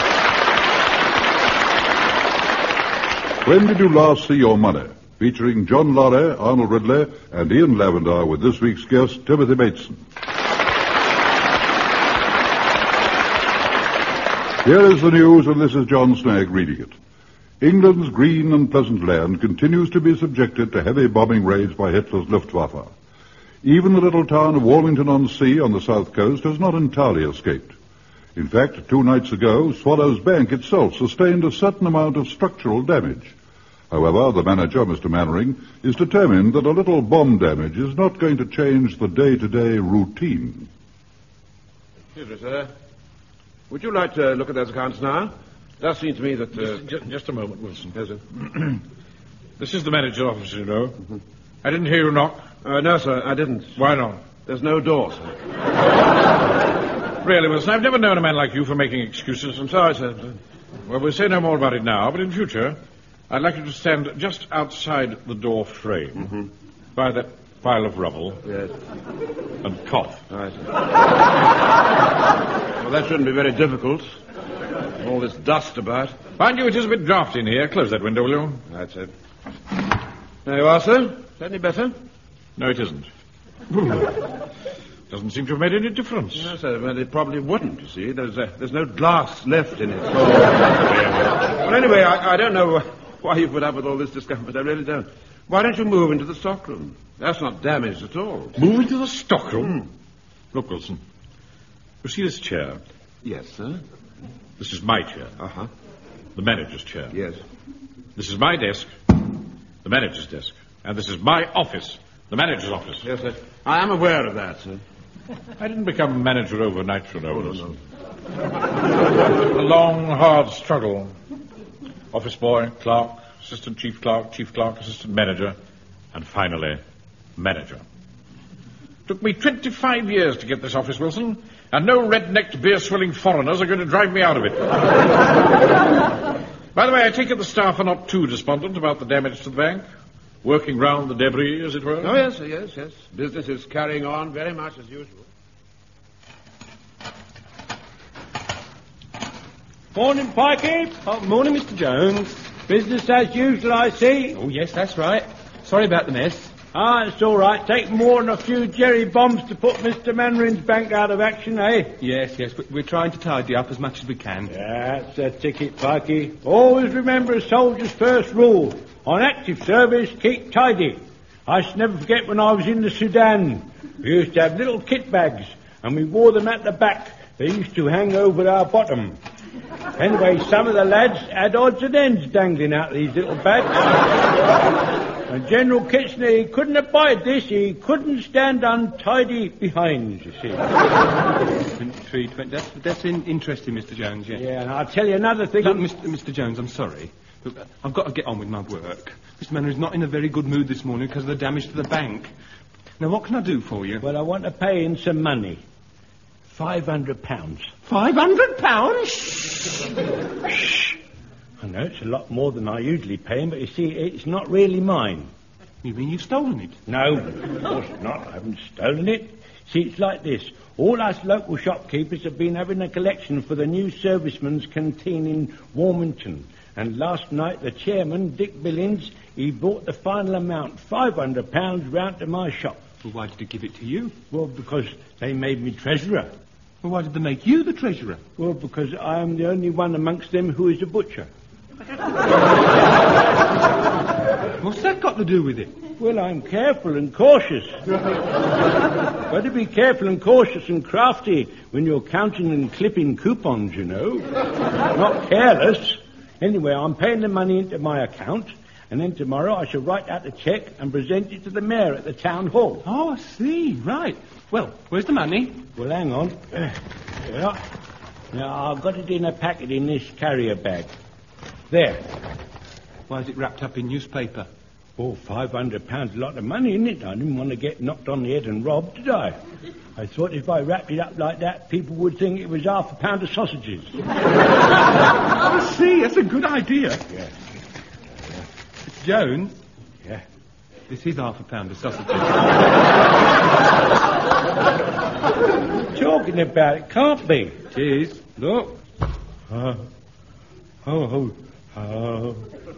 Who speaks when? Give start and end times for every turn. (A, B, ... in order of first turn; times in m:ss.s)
0:03.4-0:10.0 A
0:14.6-0:17.0 A
0:17.6-0:22.9 A
0:23.6-0:27.7 A
0:28.4-0:33.4 A
0:33.9-0:40.7 A
0:42.2-0:42.7 B
0:43.7-0:46.9 B
0:46.6-0:48.8 C
0:47.9-0:48.2 B
0:49.6-0:51.0 C
0:51.6-0:52.5 C
0:52.6-0:53.8 B
0:53.8-0:54.3 C
0:54.4-0:55.3 B
0:57.2-0:59.6 C
0:59.6-1:00.4 B
1:00.9-1:02.8 C
1:03.3-1:06.3 C
1:07.0-1:08.4 C
1:08.4-1:08.7 B
1:09.6-1:10.2 C
1:10.3-1:10.7 B
1:12.8-1:14.2 B
1:15.0-1:16.3 B
1:16.4-1:18.6 C
1:18.7-1:19.1 B
1:20.4-1:22.0 B
1:22.6-1:23.1 C
1:25.1-1:26.5 C
1:26.4-1:38.6 B
1:38.6-1:39.8 C
1:40.5-1:41.0 C
1:42.0-1:42.8 C
1:43.2-1:43.8 B
1:44.6-1:45.3 C
1:45.4-1:45.7 B
1:46.4-1:47.2 C
1:47.1-1:47.4 B
1:48.2-1:49.2 C
1:49.8-1:53.0 C
1:53.0-1:54.8 B
1:55.6-1:57.7 C
1:57.4-1:57.7 B
1:59.3-2:01.1 C
2:02.1-2:05.6 C
2:06.1-2:06.8 C
2:07.4-2:07.8 C
2:09.1-2:14.8 C
2:16.8-2:19.8 C
2:20.4-2:22.2 C
2:22.0-2:25.3 B
2:29.9-2:31.0 D
2:31.0-2:32.5 E
2:32.7-2:34.4 D
2:34.4-2:36.5 E
2:36.7-2:42.0 D
2:42.0-2:44.5 E
2:44.5-2:59.2 D
3:00.0-3:04.0 D
3:05.3-3:10.6 D
3:11.8-3:14.4 E
3:14.4-3:15.8 D
3:15.6-3:22.3 E
3:23.0-3:24.0 E
3:24.0-3:25.6 D
3:26.5-3:27.7 D
3:27.8-3:29.8 E
3:30.5-3:31.0 D
3:31.6-3:35.3 D
3:35.8-3:36.8 E
3:36.9-3:52.8 D
3:53.0-3:54.2 E
3:54.3-3:56.3 D
3:56.8-3:58.2 E
3:58.4-4:01.3 D
4:04.6-4:05.7 E
4:06.0-4:07.8 D
4:09.3-4:14.3 D
4:14.9-4:22.8 D
4:22.8-4:25.6 E
4:25.8-4:27.6 D
4:28.3-4:30.9 D
4:31.7-4:32.0 D
4:33.1-4:34.5 E
4:35.0-4:39.4 D
4:40.0-4:43.9 D
4:45.5-4:47.0 E
4:48.8-4:49.6 E
4:50.9-4:52.4 E
4:55.9-4:57.6 D
4:57.7-4:58.2 E
4:58.4-4:58.8 D
4:59.5-4:59.8 D
5:00.8-5:02.4 D